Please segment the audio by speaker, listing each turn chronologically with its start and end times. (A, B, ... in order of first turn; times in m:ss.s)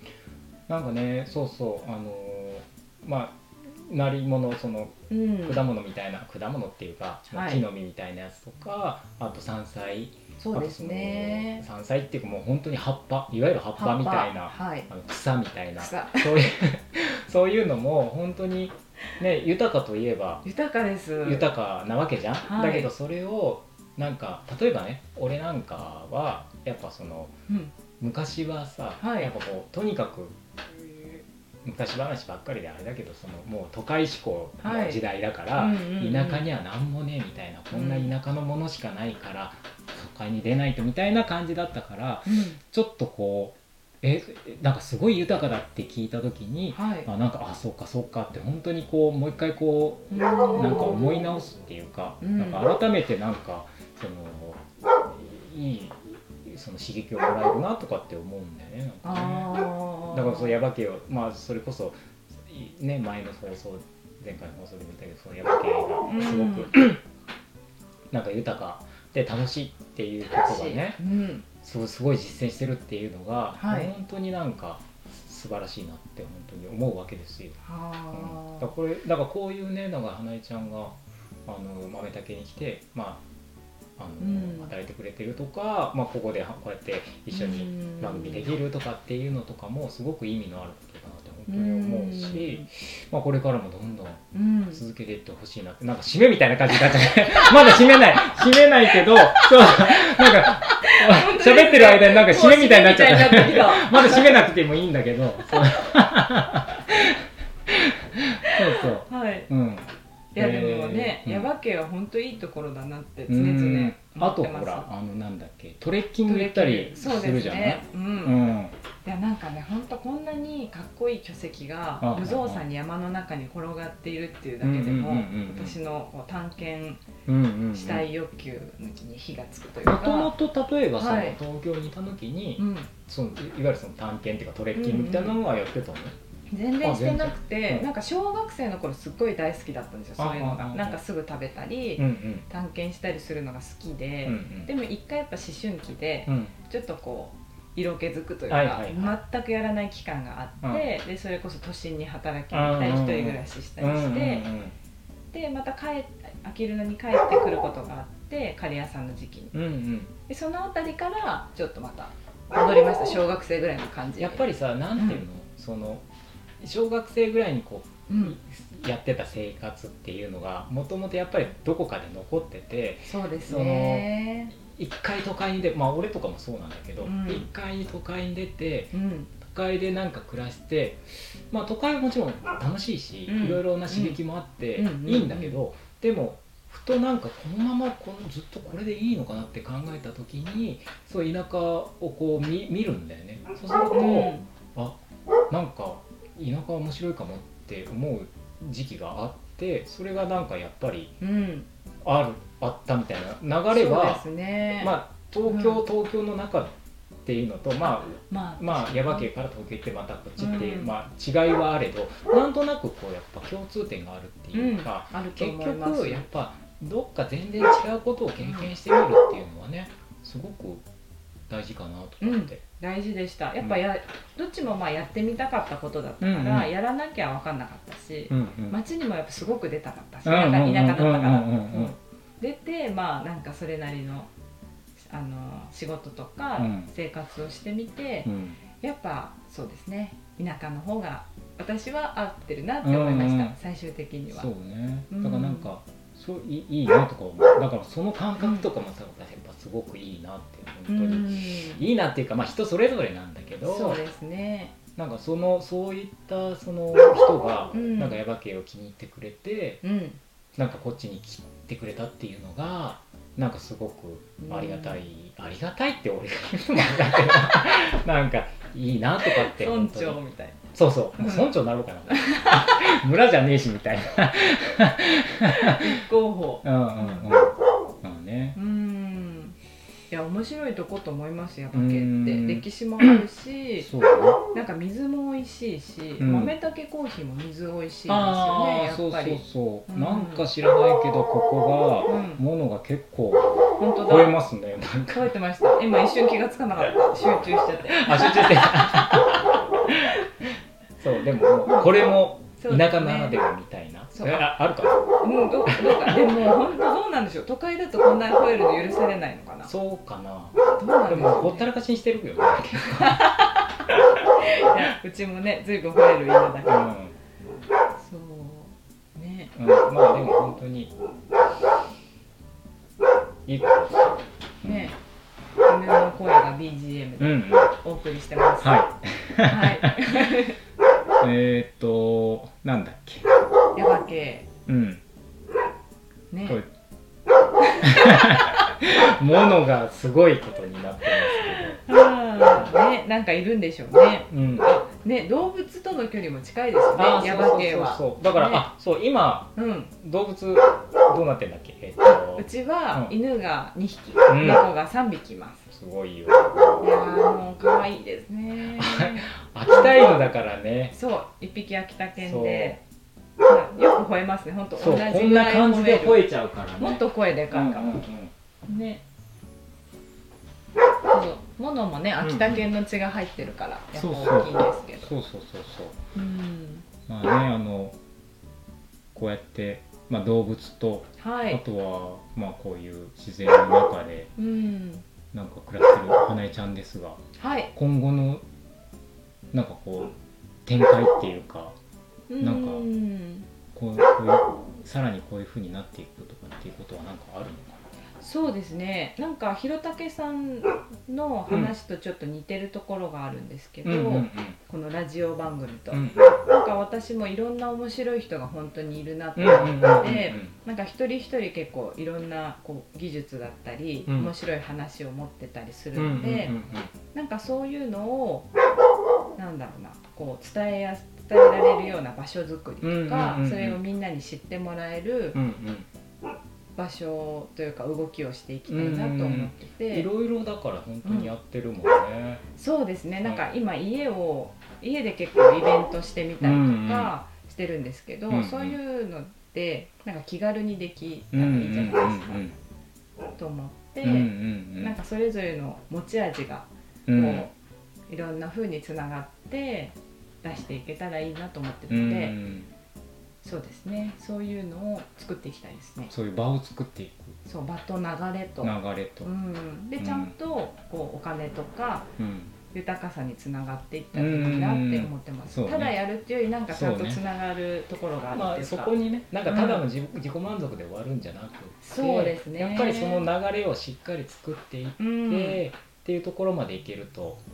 0:00.7-0:20.4 A
0:05.1-0:05.6 B
0:07.3-0:07.6 B
0:10.4-0:11.6 B
0:13.8-0:14.9 B
0:15.8-0:16.4 B
0:20.4-0:21.5 B
0:21.2-0:27.3 A
0:22.4-0:22.9 B
0:28.0-1:07.0 A
0:29.0-0:29.3 B
0:34.6-0:35.0 B
0:35.6-0:36.4 B
0:37.7-0:38.1 B
0:42.2-0:42.6 B
0:46.7-0:47.1 B
0:50.1-0:51.3 B
0:52.2-0:52.7 B
0:59.0-1:00.6 B
1:06.0-1:06.7 B
1:08.1-1:11.0 A
1:10.3-1:11.4 B
1:11.6-1:17.6 A
1:13.6-1:13.9 B
1:17.6-1:18.7 B
1:18.1-1:23.2 A
1:24.0-1:51.5 A
1:24.2-1:24.7 B
1:27.3-1:28.5 B
1:31.5-1:32.7 B
1:34.3-1:34.8 B
1:37.1-1:38.2 B
1:39.0-1:44.4 B
1:48.4-1:49.5 B
1:50.4-1:54.9 B
1:53.3-1:58.7 A
1:56.2-1:58.4 B
1:59.0-2:07.1 B
2:02.0-2:02.6 A
2:04.6-2:05.8 A
2:07.3-2:08.1 A
2:07.7-2:10.3 B
2:09.8-2:16.1 A
2:11.0-2:11.4 B
2:12.6-2:12.9 B
2:14.7-2:15.4 B
2:16.5-2:34.5 B
2:16.8-2:17.9 A
2:20.2-2:21.0 A
2:22.0-2:22.4 A
2:24.2-2:24.7 A
2:26.3-2:26.5 A
2:28.5-2:29.1 A
2:32.5-2:34.7 A
2:35.3-2:39.5 B
2:39.5-2:40.1 A
2:40.3-2:45.2 B
2:44.2-2:46.0 A
2:46.6-3:15.0 A
2:48.1-2:48.4 B
2:53.1-2:54.5 B
2:57.0-2:57.5 B
2:58.9-2:59.3 B
3:03.3-3:04.2 B
3:04.8-3:05.6 B
3:13.9-3:14.5 B
3:15.5-3:21.1 A
3:21.2-3:21.7 B
3:22.0-3:24.2 A
3:23.7-3:25.8 B
3:24.8-3:40.8 A
3:27.8-3:29.3 B
3:30.4-3:30.9 B
3:34.5-3:36.3 B
3:38.4-3:38.7 B
3:41.5-3:42.6 A
3:42.2-3:54.3 B
3:46.2-3:46.7 A
3:48.3-3:48.8 A
3:50.2-3:52.0 A
3:55.1-3:58.3 B
3:56.6-3:56.9 A
3:58.2-3:58.6 A
3:58.8-4:04.5 B
4:02.8-4:03.6 A
4:04.3-4:14.0 A
4:05.1-4:05.7 B
4:08.4-4:08.6 B
4:10.9-4:11.8 B
4:13.6-4:14.7 B
4:15.0-4:19.8 A
4:17.7-4:18.2 B
4:19.8-4:20.2 B
4:20.6-4:30.2 A
4:24.4-4:25.0 B
4:29.3-4:30.6 B
4:30.7-4:36.0 A
4:31.2-4:31.6 B
4:32.1-4:32.9 B
4:35.5-4:37.3 B
4:36.6-4:38.6 A
4:38.6-4:39.6 B
4:40.1-4:43.9 B
4:41.7-4:43.2 A
4:43.8-4:44.4 A
4:44.5-4:50.4 B
4:46.2-4:46.6 A
4:48.1-4:55.3 A
4:52.1-4:52.4 B
4:53.8-4:54.3 B
4:55.1-5:00.2 B
4:57.9-5:06.4 A
5:01.6-5:03.4 B
5:04.1-5:04.6 B
5:05.2-5:09.7 B
5:09.6-5:10.6 A
5:10.7-5:11.7 B
5:11.1-5:13.4 A
5:12.8-5:16.9 B
5:16.6-5:17.1 A
5:18.0-5:19.5 B
5:19.6-5:20.9 A
5:23.4-5:24.9 A
5:24.6-5:25.0 B
5:25.6-5:28.8 B
5:27.2-5:27.7 A
5:28.6-5:30.4 A
5:29.4-5:30.6 B
5:31.2-5:33.3 A
5:33.7-5:34.5 B
5:34.7-5:35.0 A
5:36.3-5:36.6 B
5:37.6-5:38.6 B
5:37.8-5:41.8 A
5:41.2-5:48.7 B
5:42.4-5:42.7 A
5:44.3-5:44.7 A
5:47.0-5:53.1 A
5:49.6-5:49.9 B
5:52.0-5:55.7 B
5:54.3-5:54.7 A
5:55.7-5:56.9 A
5:56.8-6:00.1 B
5:58.7-6:00.9 A
6:00.9-6:02.8 B
6:02.2-6:02.8 A
6:03.4-6:06.2 B
6:04.8-6:08.3 A
6:06.8-6:08.0 B
6:08.6-6:09.0 B
6:11.1-6:15.1 B
6:12.2-6:12.6 A
6:13.9-6:16.0 A
6:16.1-6:16.8 B
6:17.1-6:18.0 A
6:19.1-6:24.3 A
6:21.2-6:21.6 B
6:24.4-6:25.0 B
6:25.3-6:27.2 A
6:27.4-6:27.7 B
6:27.7-6:28.4 A
6:29.5-6:30.1 A
6:30.6-6:31.8 A
6:32.3-6:33.5 B
6:32.4-6:32.9 A
6:33.7-6:37.8 A
6:38.2-6:56.5 B
6:43.8-6:44.6 A
6:45.9-6:46.4 A
6:49.4-6:50.5 A
6:54.1-6:54.3 A
6:55.9-6:56.9 A
6:57.1-6:58.5 B
6:59.4-7:05.4 B
7:02.8-7:03.8 A
7:05.3-7:05.9 A
7:06.8-7:10.1 B
7:08.7-7:12.4 A
7:11.0-7:11.3 B
7:12.6-7:22.4 B
7:16.4-7:17.1 A
7:18.3-7:18.8 A
7:21.3-7:22.6 A
7:23.4-7:27.5 B
7:24.0-7:24.9 A
7:27.1-7:27.5 A
7:28.1-7:32.4 B
7:31.9-7:32.7 A
7:33.4-7:36.1 B
7:36.1-7:37.4 A
7:37.4-7:42.1 B
7:38.6-7:39.3 A
7:40.0-7:40.3 A
7:42.2-7:42.6 A
7:42.7-7:48.9 B
7:44.1-7:45.9 A
7:46.7-7:47.2 A
7:48.3-7:57.4 A
7:49.4-7:49.8 B
7:51.8-7:53.3 B
7:55.0-7:55.6 B